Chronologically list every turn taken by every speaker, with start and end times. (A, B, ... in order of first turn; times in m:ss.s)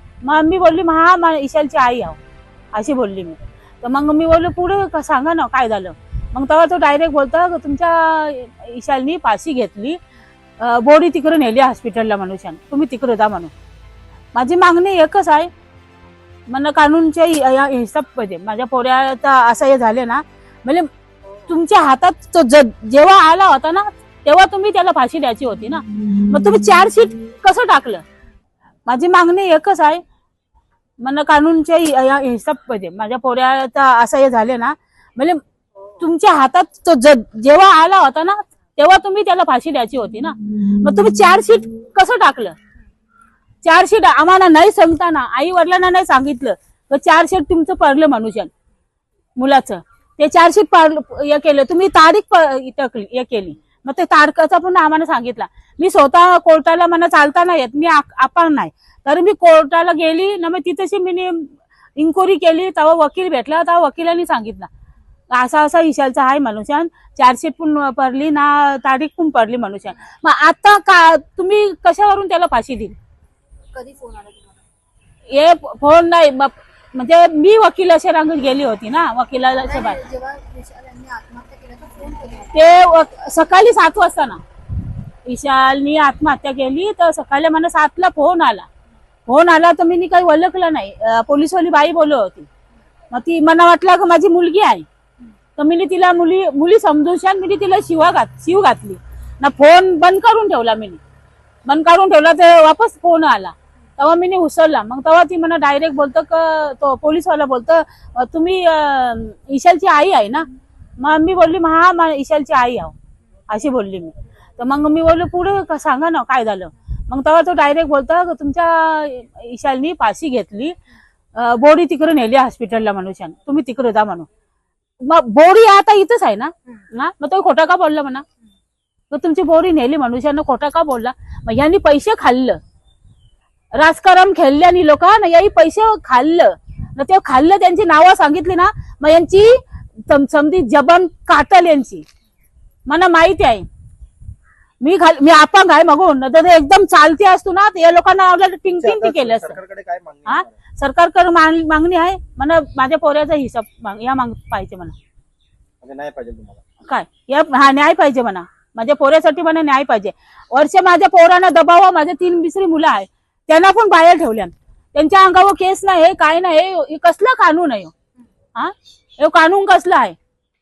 0:00.2-0:02.2 A
0:02.7-0:10.0 A
0:10.6-0:13.5 A
0:14.3-0:15.5 A
0:16.5-0:28.0 A
0:28.9-0:30.0 A
0:31.0-0:35.4 A
0:35.9-0:42.6 A
0:43.6-0:48.5 A
0:49.4-1:04.7 A
1:05.3-1:13.0 A
1:13.7-1:14.6 B
1:15.3-1:20.0 A
1:19.6-1:22.7 B
1:22.5-1:24.4 A
1:25.2-1:28.7 A
1:29.3-1:32.5 A
1:33.1-1:34.9 A
1:35.6-1:41.0 A
1:41.7-1:53.0 A
1:53.5-2:00.8 A
2:01.4-2:04.3 A
2:05.0-2:08.2 A
2:09.1-2:12.6 A
2:13.7-2:22.1 A
2:22.9-2:23.7 A
2:24.8-2:29.6 A
2:28.8-2:30.5 C
2:30.3-2:35.0 A
2:35.8-2:36.8 C
2:36.8-2:47.9 A
2:48.6-2:50.2 A